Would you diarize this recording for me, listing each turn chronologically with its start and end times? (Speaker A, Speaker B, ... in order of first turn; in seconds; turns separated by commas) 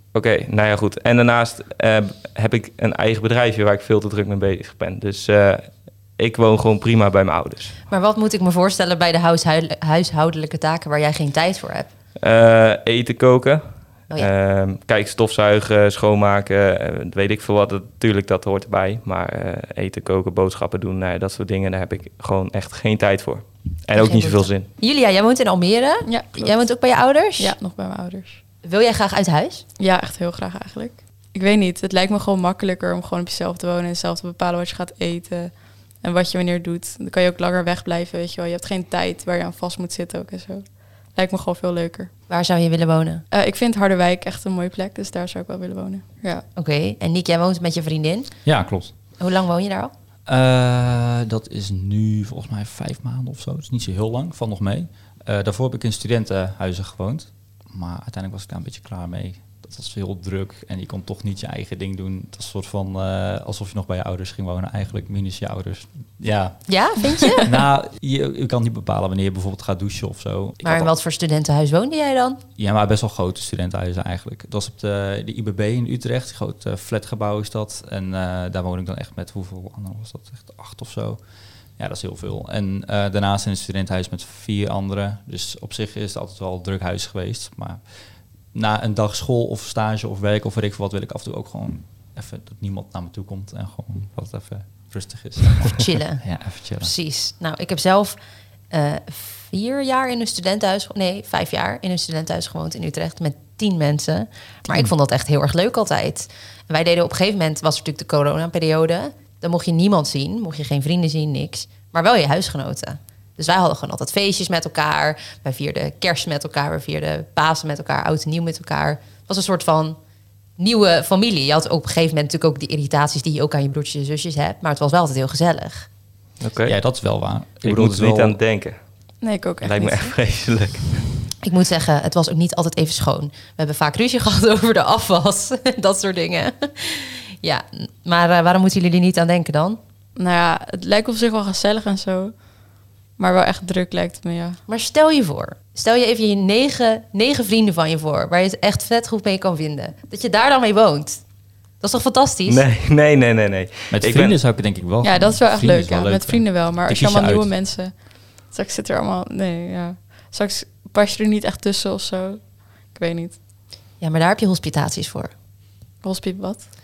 Speaker A: 0.1-7.8, Speaker B: 7.9-11.9, Speaker A: 12.2-24.7, Speaker B: 24.0-27.6, Speaker C: 26.1-26.6, Speaker C: 27.4-28.4, Speaker B: 28.6-29.6, Speaker C: 29.8-42.1, Speaker B: 42.3-43.2, Speaker C: 43.3-46.4, Speaker B: 46.6-48.3, Speaker D: 48.5-48.9, Speaker B: 49.2-49.9, Speaker D: 50.3-66.7, Speaker B: 66.7-67.6, Speaker D: 67.4-70.9, Speaker B: 70.6-72.4, Speaker D: 72.6-81.2, Speaker D: 81.8-87.8, Speaker D: 88.5-96.9, Speaker B: 95.7-96.3, Speaker B: 96.8-98.2, Speaker B: 98.7-120.0, Speaker B: 120.6-125.9, Speaker A: 126.4-126.8, Speaker D: 126.6-128.4, Speaker A: 127.6-128.8, Speaker C: 129.2-130.1, Speaker A: 129.6-131.1, Speaker B: 131.4-139.8, Speaker C: 140.2-142.3, Speaker C: 143.2-144.6, Speaker B: 144.7-151.2, Speaker B: 151.8-152.6, Speaker A: 152.5-154.4, Speaker D: 153.9-157.5, Speaker C: 155.0-163.4, Speaker B: 164.0-165.3, Speaker C: 166.0-166.7